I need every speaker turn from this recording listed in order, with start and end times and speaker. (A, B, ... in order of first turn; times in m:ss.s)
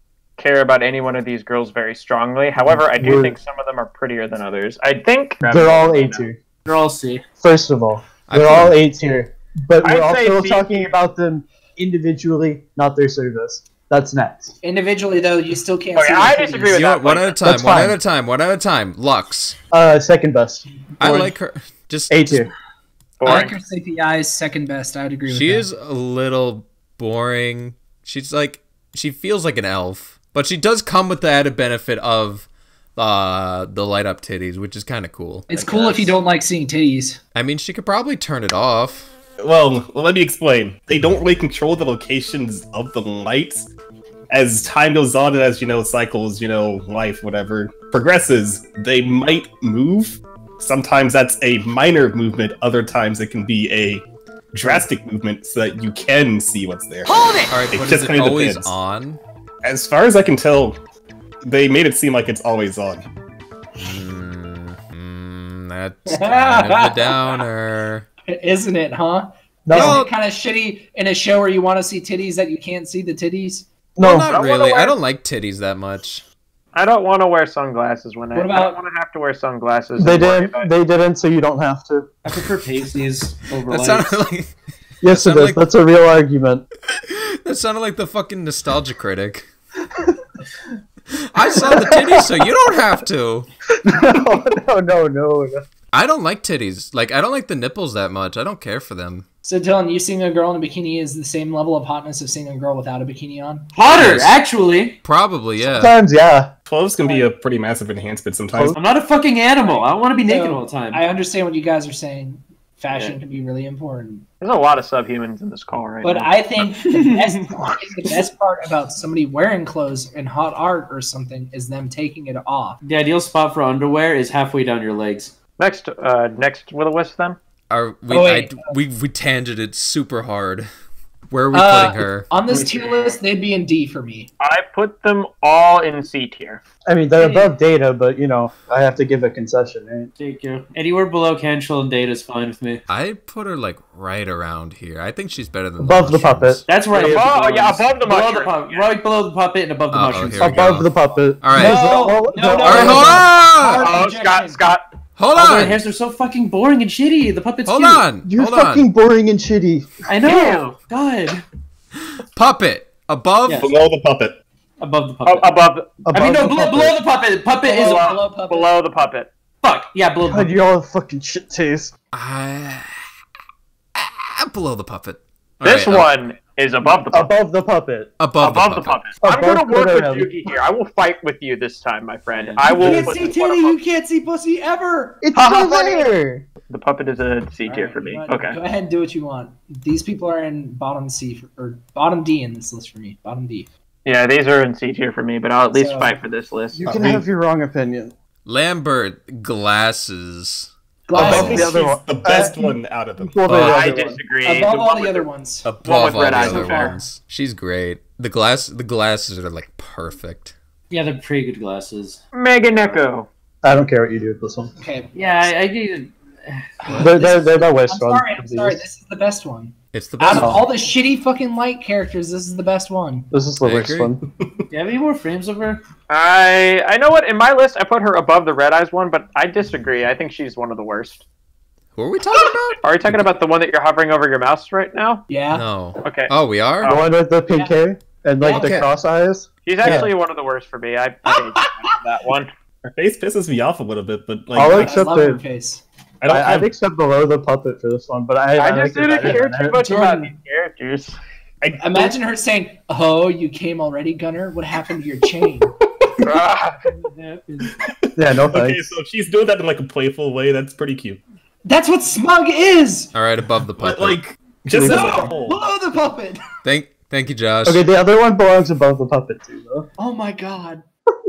0:00.4-0:06.2 A
0:02.6-0:03.4 B
0:05.4-0:06.4 B
0:06.6-0:07.2 C
0:07.4-0:14.5 B
0:08.3-0:08.8 D
0:09.8-0:10.9 A
0:14.6-0:16.8 E
0:15.9-0:17.4 A
0:16.7-0:19.6 D
0:17.4-0:18.0 B
0:19.7-0:21.3 B
0:21.0-0:22.5 D
0:22.1-0:22.5 B
0:23.2-0:23.6 A
0:23.2-0:25.7 E
0:25.3-0:36.2 D
0:35.5-0:37.2 E
0:37.4-0:39.1 D
0:39.4-0:43.7 F
0:44.3-0:57.1 F
0:57.1-0:57.5 E
0:57.5-0:59.2 D
0:57.7-0:58.8 F
0:59.6-1:00.8 F
1:01.4-1:03.1 F
1:03.8-1:08.1 D
1:06.1-1:07.3 E
1:08.3-1:13.7 E
1:09.6-1:10.0 B
1:09.7-1:10.1 D
1:14.0-1:14.3 B
1:14.0-1:16.2 D
1:14.2-1:15.0 A
1:16.7-1:20.7 A
1:18.3-1:18.8 E
1:20.0-1:22.1 B
1:22.2-1:24.2 C
1:23.7-1:24.5 D
1:25.0-1:26.6 B
1:25.1-1:25.7 D
1:26.9-1:29.4 D
1:31.1-1:33.5 D
1:31.7-1:32.3 B
1:33.8-1:35.7 B
1:35.9-1:39.2 D
1:39.4-1:43.7 E
1:43.7-1:45.0 C
1:43.9-1:44.4 D
1:45.0-1:45.9 D
1:45.6-1:46.5 B
1:46.7-1:48.8 F
1:48.5-1:48.8 B
1:48.7-1:51.0 C
1:49.6-1:54.2 E
1:54.4-1:56.3 A
1:56.0-2:02.8 E
1:56.7-1:57.2 C
2:02.8-2:05.3 C
2:05.6-2:07.4 A
2:07.7-2:10.7 D
2:08.1-2:08.7 E
2:11.3-2:12.3 D
2:11.5-2:14.3 E
2:12.5-2:13.1 A
2:14.4-2:16.6 A
2:16.9-2:20.1 B
2:17.2-2:17.5 E
2:20.2-2:22.8 C
2:22.9-2:26.6 D
2:25.8-2:26.6 B
2:26.7-2:30.8 C
2:26.9-2:28.9 A
2:29.9-2:31.9 D
2:30.4-2:33.2 B
2:31.6-2:34.7 E
2:32.6-2:33.9 D
2:33.8-2:34.9 A
2:35.2-2:35.8 D
2:35.4-2:38.0 C
2:37.6-2:38.9 D
2:38.2-2:39.9 B
2:40.1-2:41.4 C
2:40.3-2:40.6 A
2:42.4-2:43.7 D
2:43.4-2:43.7 C
2:43.6-2:44.4 F
2:44.8-2:48.1 C
2:45.2-2:46.0 A
2:46.0-2:47.0 B
2:47.6-2:48.8 E
2:47.8-2:49.3 A
2:49.6-2:50.5 C
2:50.2-2:51.9 B
2:52.1-2:52.9 D
2:54.0-2:56.1 D
2:55.6-2:57.3 A
2:57.1-2:58.1 B
2:58.2-2:59.1 D
2:58.4-3:03.8 A
2:59.2-3:00.3 B
3:02.3-3:02.9 C
3:02.6-3:05.2 E
3:02.8-3:03.1 B
3:05.2-3:06.5 B
3:05.3-3:06.1 A
3:06.7-3:08.6 A
3:07.6-3:13.7 E
3:14.0-3:16.8 A
3:15.7-3:16.1 E
3:16.7-3:18.1 B
3:16.8-3:17.2 F
3:18.5-3:21.7 D
3:21.1-3:21.7 E
3:21.1-3:24.2 B
3:21.2-3:23.5 F
3:23.5-3:23.9 D
3:23.5-3:25.2 A
3:24.4-3:25.7 E
3:25.6-3:30.6 D
3:25.8-3:27.0 A
3:26.3-3:27.0 E
3:30.9-3:32.2 C
3:32.3-3:33.3 A
3:33.6-3:34.7 B
3:34.8-3:35.1 E
3:35.1-3:36.7 C
3:36.8-3:43.3 E
3:36.9-3:37.2 D
3:37.0-3:38.8 B
3:39.9-3:40.7 D
3:43.3-3:44.2 B
3:43.6-3:44.2 D
3:44.7-3:45.8 C
3:46.1-3:51.2 A
3:52.0-3:53.2 D
3:52.8-3:55.2 A
3:55.3-3:55.6 E
3:55.5-3:56.9 D
3:56.0-3:57.0 A
3:56.8-4:00.1 B
3:58.4-3:58.9 E
3:58.5-3:58.8 D
3:59.6-4:02.5 A
4:02.8-4:05.0 F
4:04.5-4:05.4 B
4:04.7-4:05.8 E
4:06.2-4:06.7 F
4:06.2-4:09.8 B
4:08.6-4:11.2 A
4:09.8-4:10.3 E
4:11.6-4:12.1 F
4:11.8-4:15.7 E
4:16.2-4:16.9 A
4:16.9-4:17.7 C
4:17.8-4:21.2 F
4:18.2-4:19.0 B
4:21.6-4:23.1 E
4:23.1-4:24.2 D
4:23.8-4:25.6 F
4:24.7-4:25.3 B
4:24.9-4:26.4 E
4:26.6-4:27.8 D
4:27.6-4:29.9 B
4:30.0-4:30.8 E